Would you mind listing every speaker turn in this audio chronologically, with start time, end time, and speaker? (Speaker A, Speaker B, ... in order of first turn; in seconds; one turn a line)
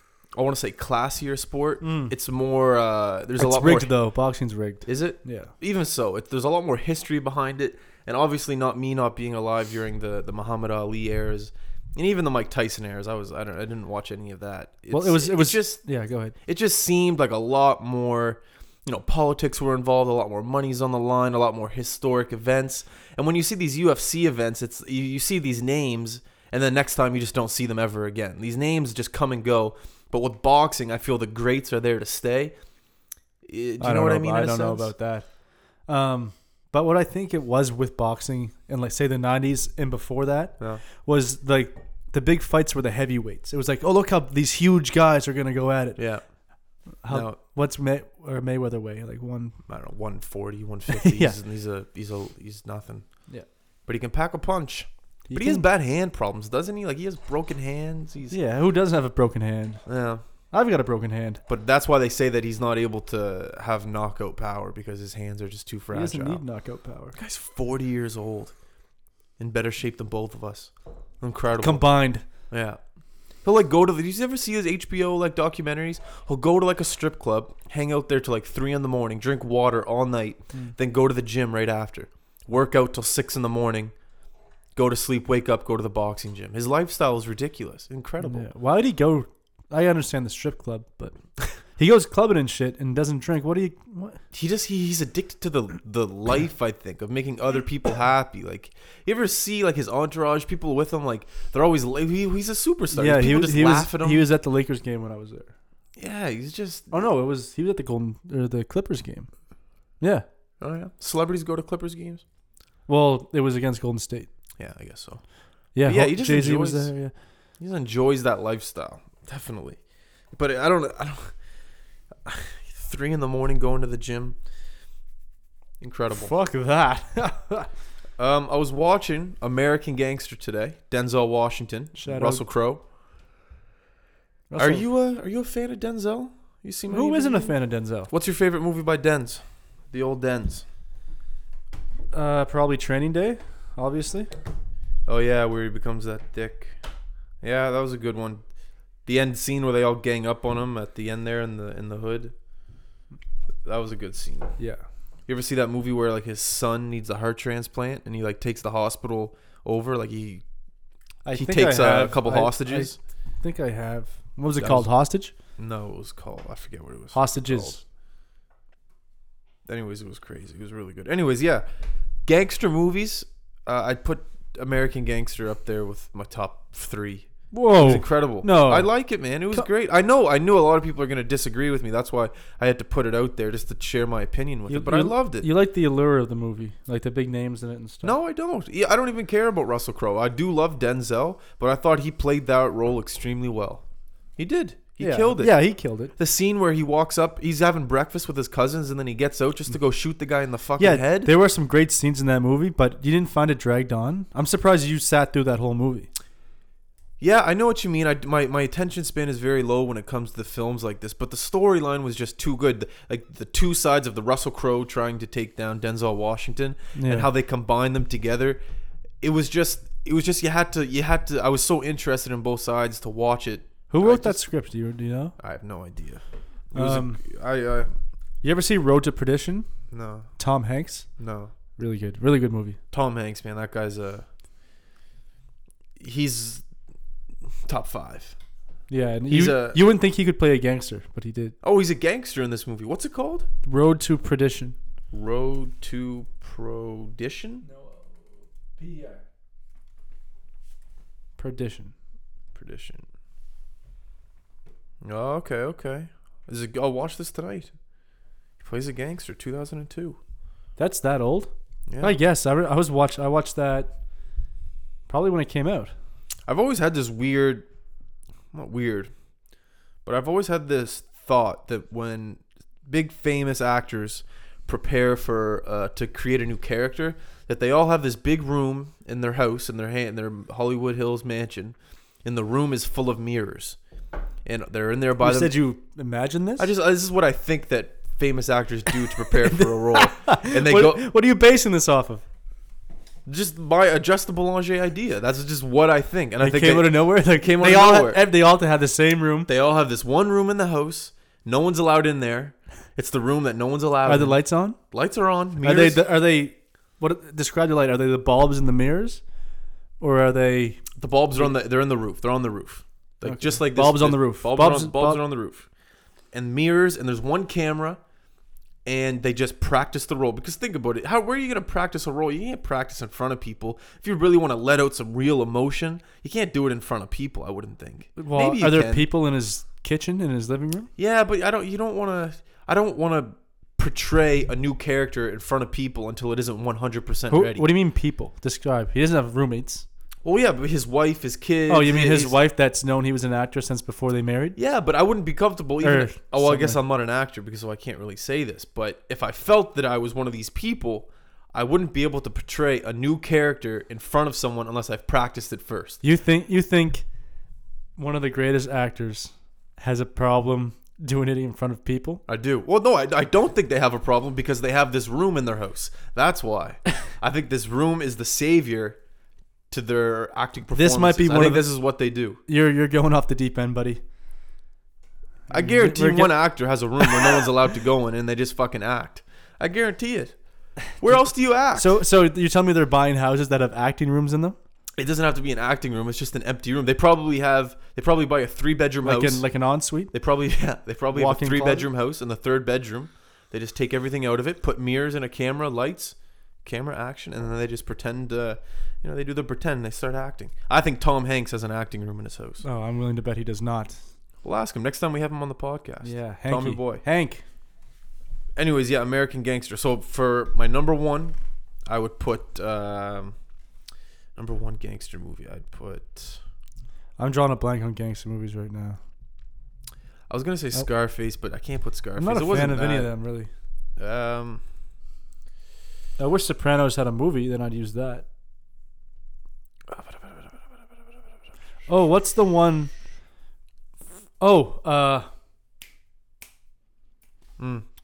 Speaker A: 0.3-3.9
Speaker B: 1.8-2.1
Speaker B: 3.4-5.5
Speaker A: 4.9-15.8
Speaker B: 14.9-16.4
Speaker A: 16.4-32.5
Speaker A: 33.4-34.9
Speaker B: 33.8-35.3
Speaker B: 35.9-46.0
Speaker A: 46.0-46.2
Speaker B: 47.0-49.6
Speaker A: 47.1-47.4
Speaker A: 49.7-53.1
Speaker B: 50.9-51.4
Speaker A: 53.9-58.4
Speaker B: 55.3-55.7
Speaker B: 58.3-59.8
Speaker A: 59.9-60.2
Speaker B: 60.4-61.4
Speaker A: 61.5-66.4
Speaker B: 65.9-67.2
Speaker A: 67.1-68.5
Speaker A: 69.4-71.9
Speaker B: 71.6-72.2
Speaker A: 72.5-72.8
Speaker A: 73.4-83.9
Speaker A: 84.8-88.5
Speaker B: 88.2-94.2
Speaker A: 94.3-104.3
Speaker B: 102.9-105.5
Speaker A: 106.0-107.0
Speaker B: 106.9-109.3
Speaker B: 110.0-110.2
Speaker A: 110.6-112.2
Speaker B: 112.9-114.3
Speaker A: 114.6-115.2
Speaker B: 115.7-117.1
Speaker A: 115.8-117.0
Speaker A: 117.6-119.8
Speaker A: 120.3-121.4
Speaker A: 122.2-124.4
Speaker A: 125.8-126.3
Speaker B: 126.1-127.7
Speaker A: 128.2-132.8
Speaker B: 132.0-132.4
Speaker B: 134.5-134.8
Speaker A: 134.6-137.6
Speaker B: 136.9-138.1
Speaker A: 138.1-140.7
Speaker B: 142.1-144.3
Speaker A: 145.1-146.8
Speaker A: 147.4-148.4
Speaker A: 149.1-152.3
Speaker A: 153.7-154.6
Speaker B: 154.6-154.8
Speaker A: 155.3-160.4
Speaker B: 161.2-165.3
Speaker A: 161.3-163.0
Speaker A: 164.6-164.9
Speaker A: 165.6-167.8
Speaker B: 167.1-167.8
Speaker A: 169.7-171.7
Speaker A: 172.2-185.5
Speaker B: 177.5-179.7
Speaker B: 184.7-188.2
Speaker A: 188.0-193.8
Speaker A: 194.4-195.6
Speaker B: 195.0-196.1
Speaker A: 196.2-201.3
Speaker B: 200.8-206.1
Speaker A: 207.2-218.6
Speaker B: 216.9-217.3
Speaker A: 219.2-224.4
Speaker B: 223.9-225.3
Speaker A: 225.4-227.9
Speaker B: 226.7-227.2
Speaker B: 228.4-229.7
Speaker A: 229.9-230.3
Speaker B: 230.4-231.1
Speaker A: 231.2-231.5
Speaker B: 231.8-232.8
Speaker A: 232.9-234.2
Speaker A: 236.0-236.6
Speaker A: 237.7-238.4
Speaker B: 238.9-241.6
Speaker A: 239.3-239.8
Speaker A: 241.6-243.5
Speaker B: 243.6-244.8
Speaker A: 245.1-247.6
Speaker B: 247.6-249.2
Speaker B: 251.4-251.9
Speaker A: 252.6-253.1
Speaker A: 255.0-257.7
Speaker A: 258.6-260.2
Speaker B: 260.8-263.9
Speaker A: 261.9-262.1
Speaker B: 265.1-265.9
Speaker A: 266.5-267.6
Speaker A: 268.5-269.1
Speaker A: 270.1-283.8
Speaker A: 284.4-285.5
Speaker B: 285.2-286.7
Speaker A: 286.6-291.0
Speaker B: 289.6-292.2
Speaker A: 293.2-298.2
Speaker B: 296.4-299.5
Speaker A: 299.5-306.0
Speaker B: 304.1-304.8
Speaker B: 305.6-309.2
Speaker B: 310.0-311.5
Speaker A: 311.0-315.7
Speaker B: 313.2-315.2
Speaker A: 316.3-318.0
Speaker A: 318.9-329.1
Speaker B: 328.2-330.9
Speaker A: 331.0-337.7
Speaker B: 337.3-339.9
Speaker A: 340.2-342.4
Speaker B: 341.7-344.6
Speaker A: 344.6-356.0
Speaker B: 345.8-346.8
Speaker B: 356.0-357.1
Speaker B: 358.0-362.2
Speaker A: 362.3-369.0
Speaker A: 369.7-372.4
Speaker B: 370.7-371.7
Speaker B: 372.5-374.0
Speaker B: 375.5-376.4
Speaker A: 375.5-382.0
Speaker B: 377.0-377.5
Speaker B: 381.7-384.6
Speaker A: 385.0-389.4
Speaker B: 389.0-390.1
Speaker A: 390.1-402.6
Speaker B: 391.1-391.9
Speaker B: 402.6-404.0
Speaker A: 404.4-407.0
Speaker B: 406.0-407.4
Speaker A: 408.6-413.4
Speaker A: 414.4-416.4
Speaker B: 417.2-419.0
Speaker A: 420.3-423.1
Speaker B: 422.2-423.5
Speaker A: 424.0-424.6
Speaker B: 426.2-428.2
Speaker A: 429.9-430.8
Speaker B: 431.9-432.9
Speaker B: 434.4-435.3
Speaker A: 437.6-437.9